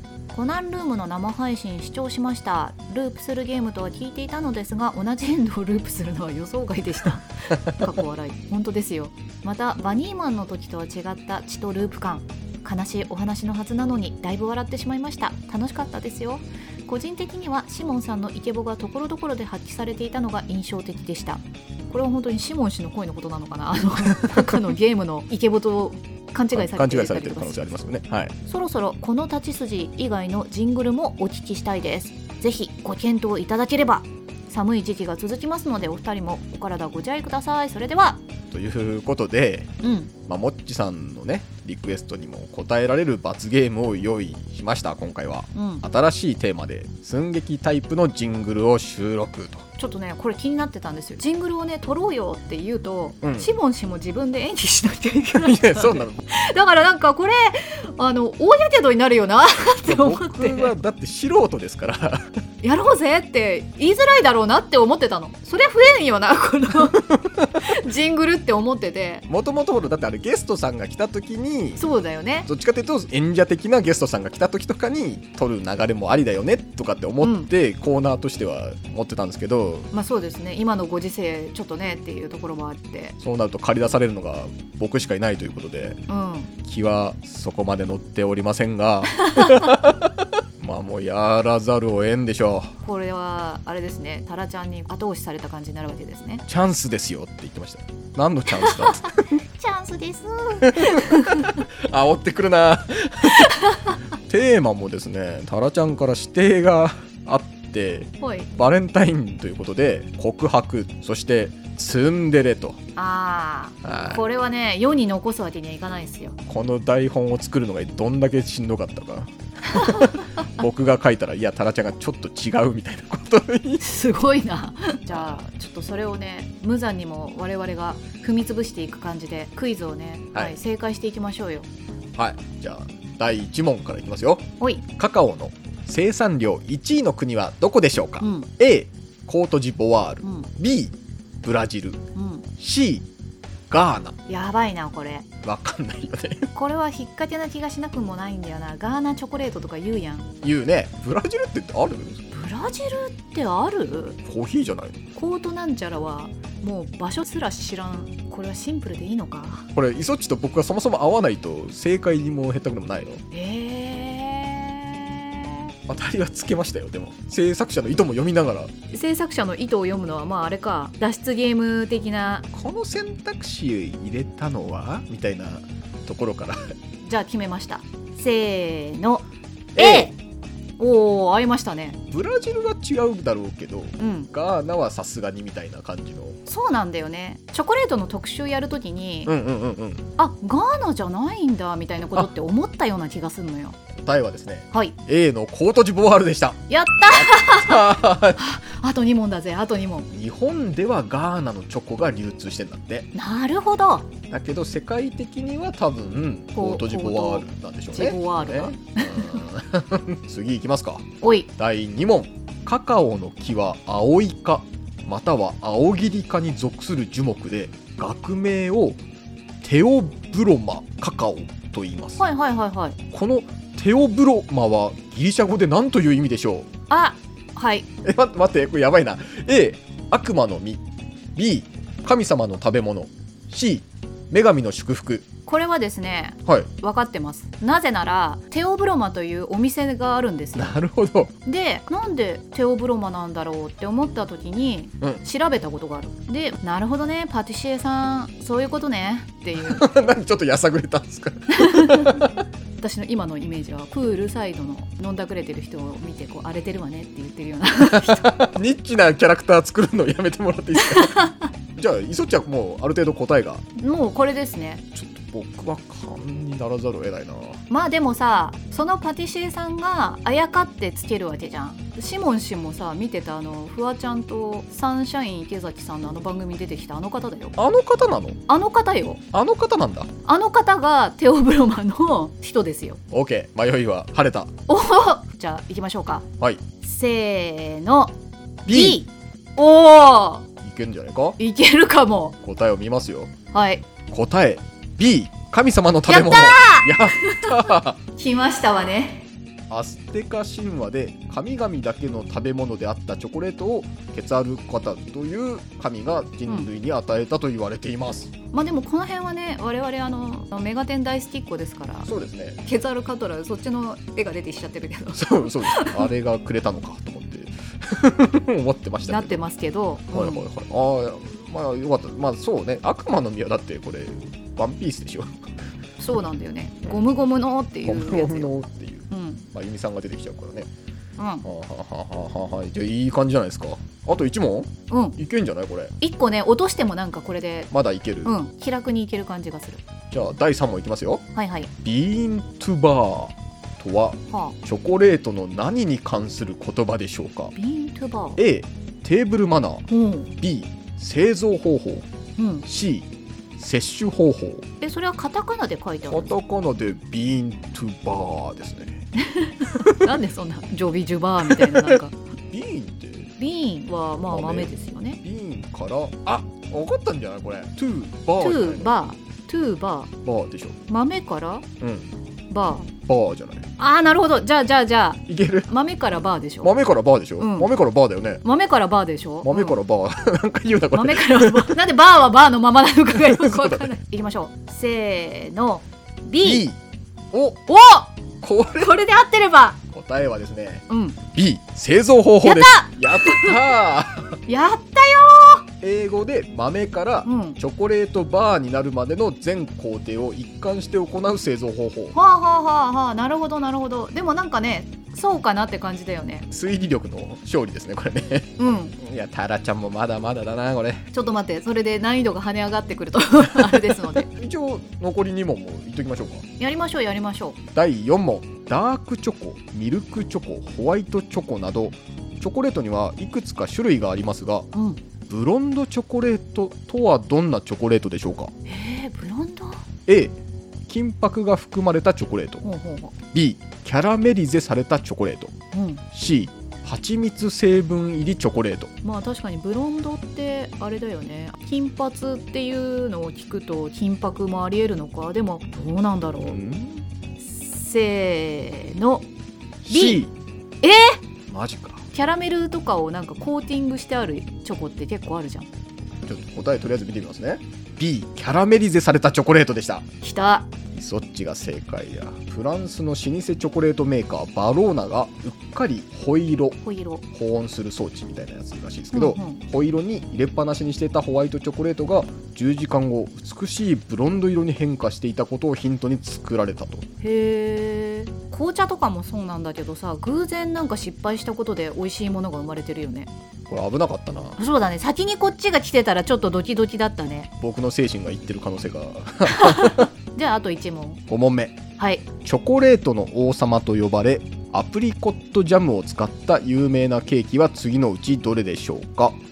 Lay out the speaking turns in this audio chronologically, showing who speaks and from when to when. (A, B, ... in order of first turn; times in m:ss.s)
0:00.3-0:27.7 A
0:24.2-0:24.6 B
0:26.5-0:28.3 B
0:28.4-0:38.2 A
0:38.5-0:39.7 B
0:39.8-0:40.1 A
0:40.3-0:49.6 B
0:45.5-0:45.8 A
0:49.8-1:00.7 A
0:53.2-0:53.5 B
0:55.3-0:56.2 B
0:59.8-1:02.3 B
1:02.6-1:09.2 A
1:07.1-1:07.6 B
1:09.3-1:11.8 B
1:11.8-1:12.5 A
1:12.5-1:19.9 B
1:17.2-1:17.5 A
1:19.9-1:23.2 A
1:23.2-1:26.0 B
1:26.1-1:26.5 A
1:26.6-1:32.8 B
1:32.8-1:36.4 A
1:36.5-1:39.1 B
1:38.6-1:41.6 A
1:40.6-1:43.6 B
1:43.4-1:43.9 A
1:44.3-1:52.8 B
1:48.2-1:48.5 A
1:53.0-1:56.4 A
1:53.8-1:54.2 B
1:56.5-2:03.8 B
1:59.7-2:00.2 A
2:03.8-2:11.7 A
2:05.1-2:05.4 B
2:12.1-2:22.0 B
2:18.2-2:18.5 A
2:20.2-2:20.5 A
2:22.1-2:22.4 A
2:22.6-2:23.1 B
2:23.7-2:24.2 B
2:24.3-2:25.3 A
2:25.4-2:26.5 B
2:26.5-2:30.3 A
2:30.4-2:32.2 B
2:32.3-2:34.2 A
2:34.2-2:35.0 B
2:35.1-2:39.7 A
2:39.7-2:43.2 B
2:43.3-2:45.7 A
2:45.9-2:48.7 B
2:48.9-2:52.5 A
2:52.5-2:56.7 B
2:57.0-2:59.2 A
2:59.7-3:00.1 B
2:59.8-3:00.1 A
3:00.8-3:02.0 A
3:02.1-3:06.4 B
3:04.0-3:04.3 A
3:06.4-3:09.3 A
3:09.2-3:10.0 B
3:10.2-3:13.8 A
3:13.9-3:18.4 B
3:16.7-3:20.1 A
3:20.1-3:23.1 B
3:23.1-3:24.1 A
3:24.3-3:39.0 B
3:26.6-3:29.4 A
3:31.2-3:31.5 A
3:39.6-3:42.2 B
3:42.2-3:43.0 A
3:43.1-3:46.7 B
3:46.9-3:47.9 A
3:48.0-3:50.8 B
3:51.4-3:55.3 B
3:55.4-4:00.8 A
4:00.6-4:01.3 B
4:01.4-4:09.9 A
4:09.6-4:12.3 B
4:11.5-4:12.2 A
4:12.8-4:18.4 A
4:17.9-4:21.2 B
4:20.8-4:21.5 A
4:21.7-4:23.6 B
4:23.8-4:24.8 A
4:24.9-4:27.6 B
4:27.7-4:37.6 A
4:37.6-4:38.4 B
4:38.5-4:39.2 A
4:39.3-4:40.1 B
4:40.2-4:43.0 A
4:43.1-4:44.5 B
4:44.7-4:46.2 A
4:46.8-4:48.1 A
4:48.6-4:49.0 B
4:48.6-4:50.5 A
4:50.6-4:51.4 B
4:51.4-4:52.4 A
4:52.4-4:53.3 B
4:53.5-4:53.8 A
4:54.1-4:58.0 B
4:56.1-4:59.3 A
4:59.7-5:08.3 B
5:08.5-5:12.1 A
5:12.1-5:12.6 B
5:12.6-5:16.1 A
5:15.1-5:19.4 B
5:19.1-5:20.4 A
5:20.1-5:25.6 B
5:26.0-5:28.5 A
5:27.8-5:30.7 B
5:29.1-5:29.5 A
5:31.2-5:31.4 A
5:31.4-5:35.9 B
5:34.9-5:35.2 A
5:36.0-5:37.7 A
5:37.7-5:38.3 B
5:38.2-5:39.8 A
5:40.1-5:41.2 B
5:41.3-5:41.7 A
5:41.8-5:47.5 B
5:44.3-5:44.6 A
5:47.5-5:48.4 A
5:48.4-5:49.9 B
5:49.9-5:50.3 A
5:50.4-5:52.1 B
5:52.4-5:52.6 A
5:52.6-5:54.6 B
5:54.8-5:56.3 A
5:56.0-5:59.1 B
5:59.2-6:02.2 A
5:59.8-6:00.1 B
6:01.4-6:02.0 B
6:02.5-6:03.4 B
6:03.4-6:05.2 A
6:04.2-6:08.9 B
6:08.4-6:10.1 A
6:10.2-6:10.8 B
6:10.9-6:11.7 A
6:11.8-6:12.1 B
6:12.5-6:12.9 A
6:13.0-6:13.7 B
6:13.8-6:16.7 A
6:15.3-6:15.7 B
6:16.6-6:18.4 B
6:17.4-6:17.7 A
6:18.4-6:19.8 A
6:19.4-6:21.8 B
6:20.9-6:26.6 A
6:23.1-6:23.9 B
6:26.4-6:26.8 B
6:27.3-6:27.6 B
6:27.7-6:28.1 A
6:28.4-6:29.0 B
6:28.8-6:29.8 A
6:29.9-6:34.4 B
6:30.9-6:31.2 A
6:32.4-6:33.6 A
6:34.5-6:35.6 A
6:35.8-6:42.1 B
6:37.2-6:37.6 A
6:42.1-6:46.5 A
6:46.5-6:51.0 B
6:48.6-6:48.9 A
6:51.1-6:54.3 A
6:53.7-6:56.4 B
6:56.6-6:57.6 A
6:57.7-7:04.7 B
7:04.7-7:05.0 A
7:05.3-7:08.5 B
7:08.6-7:09.8 A
7:10.1-7:10.4 B
7:10.9-7:12.6 B
7:12.6-7:13.1 A
7:13.3-7:15.6 B
7:15.7-7:16.0 A
7:16.1-7:18.9 B
7:19.0-7:26.6 A
7:26.4-7:27.0 B
7:27.4-7:29.3 A
7:29.8-7:30.3 B
7:29.9-7:30.2 A
7:30.8-7:31.2 A
7:31.5-7:32.1 B
7:32.1-7:35.7 A
7:36.2-7:40.1 B
7:40.2-7:40.7 A
7:40.9-7:46.8 B
7:46.8-7:47.2 A
7:47.3-7:57.1 B
7:49.1-7:49.6 A
7:57.2-8:03.3 A
8:03.7-8:04.6 B
8:04.6-8:07.5 A
8:07.6-8:10.1 B
8:09.5-8:11.2 A
8:11.3-8:11.8 B
8:12.0-8:12.2 A
8:12.4-8:19.4 B